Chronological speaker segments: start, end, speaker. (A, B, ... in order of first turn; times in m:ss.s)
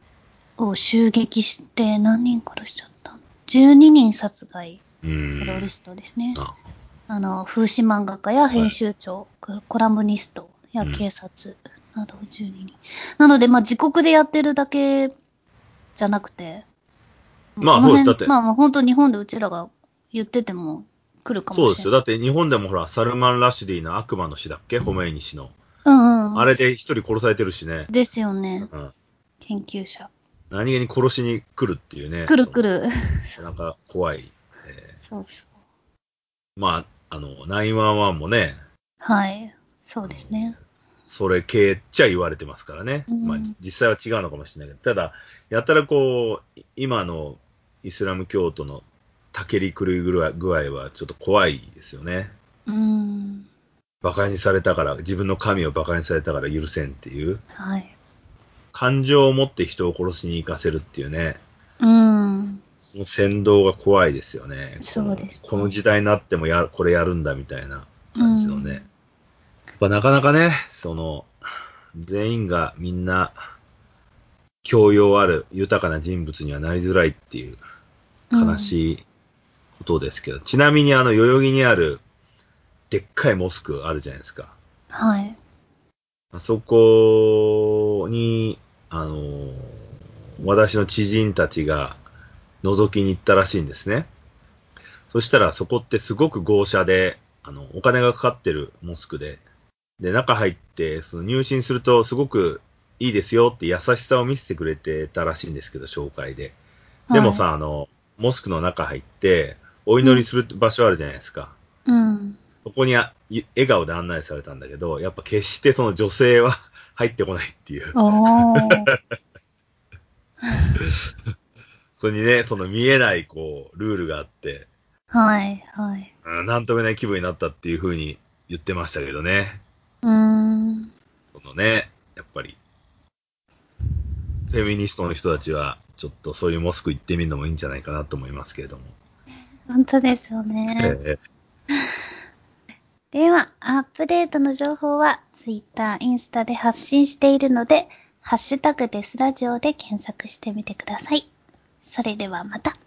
0:00.6-0:04.8 A
0:05.0-0:05.7 B
0:05.4-0:06.4 A
0:07.1-0:15.1 A
0:16.0-0:16.6 A
0:17.6-0:21.9 A
0:17.6-0:18.3 B
0:21.5-0:25.6 B
0:25.8-0:26.5 A
0:26.4-0:27.9 B
0:27.9-0:28.7 A
0:28.6-0:28.9 B
0:29.4-0:30.1 A
0:30.5-0:32.6 B
0:32.3-0:33.4 A
0:33.4-0:35.0 B
0:35.1-0:35.5 A
0:36.6-0:38.6 B
0:39.0-0:40.6 A
0:40.1-0:52.3 B
0:43.1-0:43.6 A
0:52.7-0:53.5 A
0:54.0-0:57.4 B
0:57.6-0:57.9 A
0:58.7-1:01.4 B
1:01.8-1:02.6 A
1:02.8-1:08.8 B
1:04.8-1:05.8 A
1:08.2-1:08.8 A
1:09.8-1:11.3 B
1:12.0-1:13.4 B
1:14.6-1:17.6 B
1:18.3-1:18.8 A
1:18.4-1:19.0 B
1:19.8-1:22.0 B
1:22.9-1:24.6 B
1:24.9-1:25.4 A
1:26.3-1:29.8 B
1:30.4-1:32.0 B
1:32.6-1:34.1 B
1:35.1-1:39.4 B
1:40.0-1:46.6 B
1:47.1-1:47.4 A
1:47.1-1:51.6 B
1:51.9-1:52.4 A
1:52.6-1:58.8 B
1:58.0-1:58.9 A
2:00.4-2:00.8 A
2:00.8-2:01.1 B
2:02.0-2:04.7 B
2:05.1-2:06.1 A
2:06.2-2:09.6 B
2:10.0-2:10.9 A
2:11.3-2:12.6 B
2:14.5-2:18.9 B
2:19.7-2:21.0 A
2:20.8-2:21.2 B
2:23.1-2:31.3 A
2:31.8-2:32.8 A